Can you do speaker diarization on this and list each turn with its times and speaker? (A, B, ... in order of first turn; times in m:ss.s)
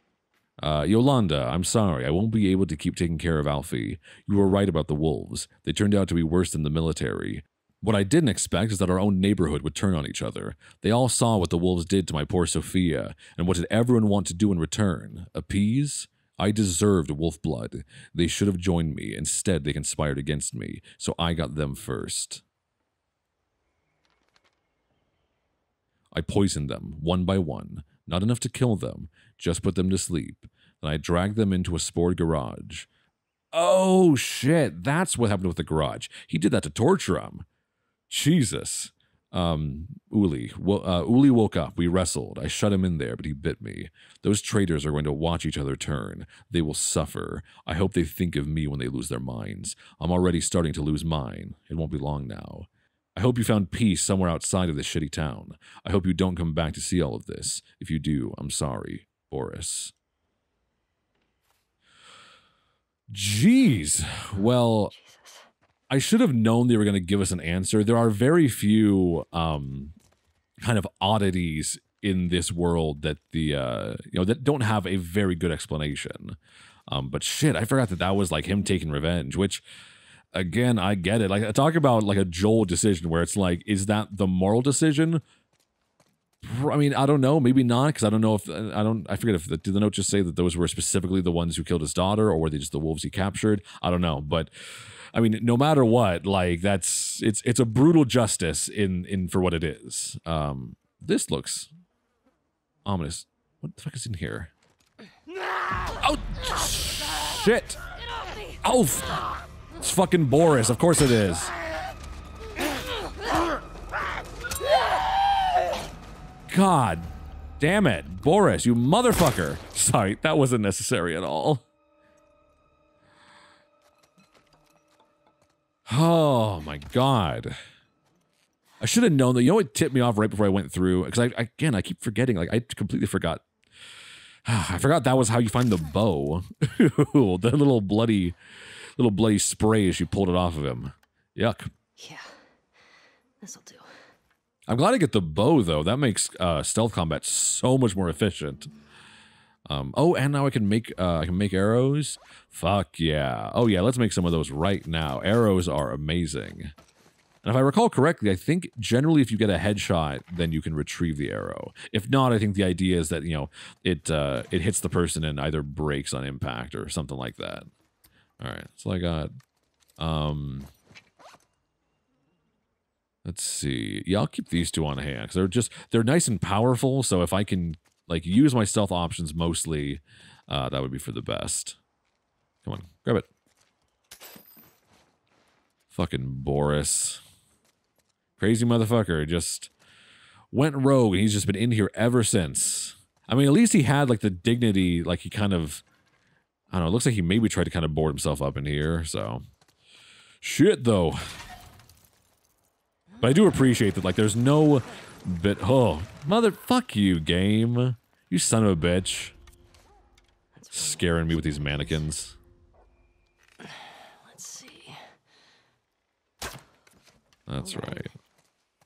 0:00.6-0:22.4 A
0:26.1-0:32.9 A
0:33.5-0:37.4 A
0:38.1-0:59.9 A
1:03.1-1:04.9 A
1:04.3-1:05.5 B
1:05.9-1:09.9 A
1:10.6-1:16.4 A
1:16.9-1:19.6 A
1:20.3-1:25.2 A
1:26.4-1:41.7 A
1:42.8-1:44.5 A
1:46.0-1:47.8 A
1:48.6-1:51.5 A
1:56.5-2:01.6 A
2:05.9-2:07.6 A
2:08.8-2:13.4 A
2:14.4-2:18.4 A
2:19.0-2:21.7 A
2:22.0-2:24.1 B
2:24.7-2:28.7 A
2:29.7-2:36.7 A
2:37.4-2:47.7 A
2:48.4-2:49.3 A
2:50.0-2:50.7 A
2:53.2-3:01.8 A
3:02.6-3:03.3 A
3:05.9-3:07.2 A
3:08.4-3:09.7 A
3:10.5-3:15.8 A
3:16.7-3:19.4 A
3:20.4-3:21.4 A
3:23.1-3:23.5 B
3:23.2-3:29.3 A
3:30.5-3:32.1 B
3:30.7-3:32.4 A
3:33.6-3:35.1 B
3:37.5-3:38.1 A
3:37.6-3:38.1 B